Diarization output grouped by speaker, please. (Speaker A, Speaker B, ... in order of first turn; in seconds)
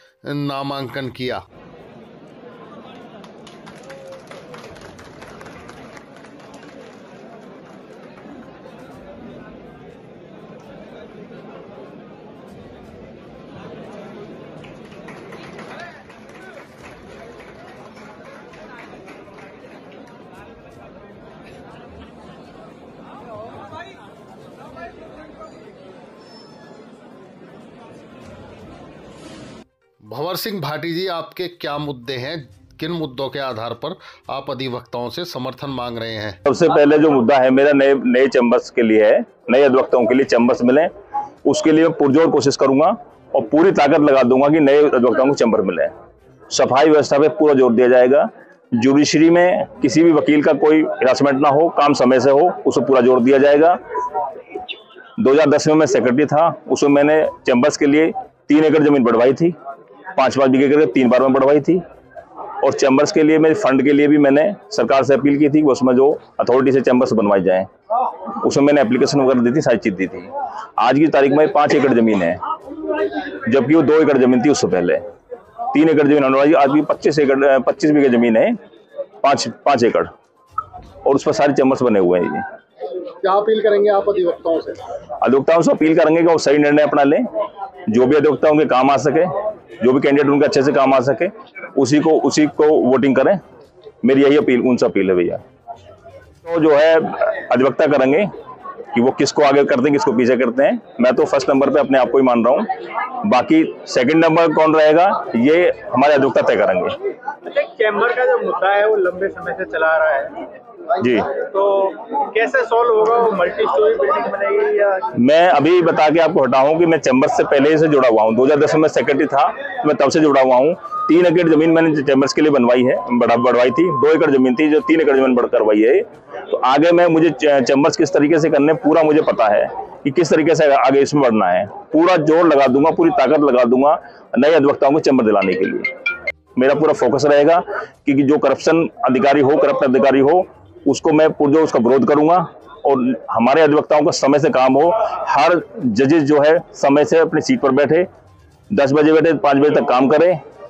Speaker A: 0.2-1.4, 30.1-36.4, 83.2-84.8
Speaker B: 36.5-40.9, 41.5-45.9, 46.5-53.8, 55.2-59.5, 60.1-61.8, 62.6-67.7, 68.3-72.4, 73.3-75.0, 75.7-78.5, 79.2-80.1, 81.0-82.5, 85.2-87.2, 87.9-93.4, 94.0-95.4, 96.4-98.3, 98.9-102.7, 103.2-107.0, 111.0-111.4, 115.1-135.9, 136.6-148.1, 148.7-150.4
Speaker C: 107.5-110.5, 111.4-115.1